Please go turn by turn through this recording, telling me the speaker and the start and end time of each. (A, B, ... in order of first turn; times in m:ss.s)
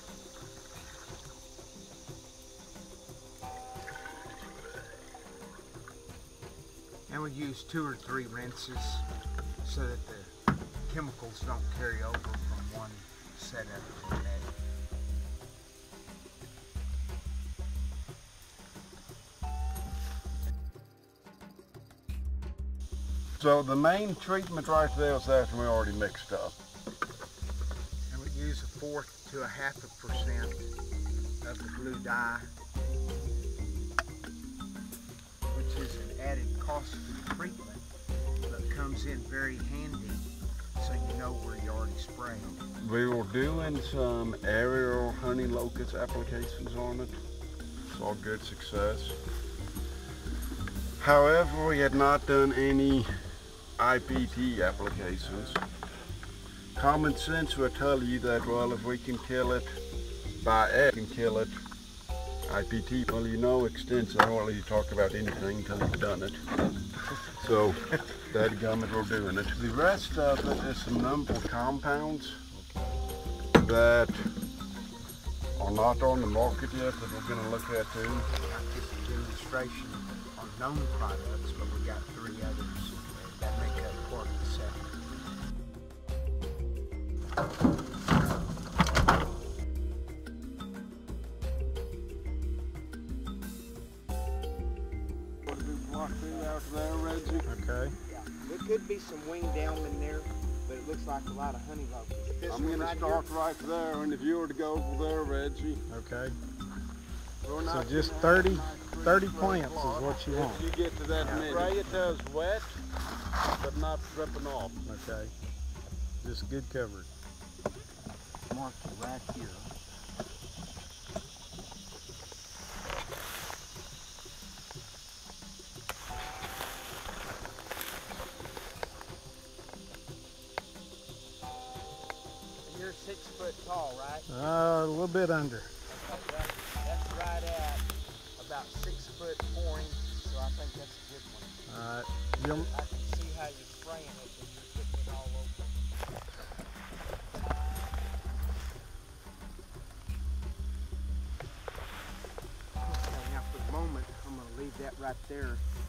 0:07.1-0:09.0 A
0:09.6-0:14.5 A
0:23.4-0:26.6 B
0:28.1-0:30.7 A
0:31.4-0:32.5 A
0:35.5-0:37.8 A
0:38.4-0:42.6 A
0:42.8-0:47.2 B
0:47.9-0:49.2 B
0:51.0-0:53.1 B
0:53.8-0:55.6 B
0:54.1-0:55.6 A
0:56.7-0:59.8 B
1:00.4-1:01.6 B
1:02.4-1:06.4 B
1:07.3-1:12.4 B
1:12.5-1:13.0 C
1:13.5-1:14.3 B
1:15.6-1:18.3 B
1:18.3-1:25.0 A
1:35.4-1:37.5 B
1:36.2-1:37.4 A
1:37.4-1:37.9 C
1:38.1-1:43.3 A
1:42.5-1:45.8 B
1:45.9-1:46.4 C
1:47.4-1:52.8 B
1:47.6-1:50.6 C
1:51.1-1:51.7 A
1:53.6-1:54.7 B
1:54.8-1:55.3 C
1:56.2-1:57.1 C
1:58.5-1:59.7 A
2:12.6-2:14.3 A
2:14.3-2:15.7 C
2:15.9-2:17.8 A
2:18.4-2:21.6 A
2:21.7-2:22.7 C
2:22.3-2:25.8 A
2:32.8-2:35.6 A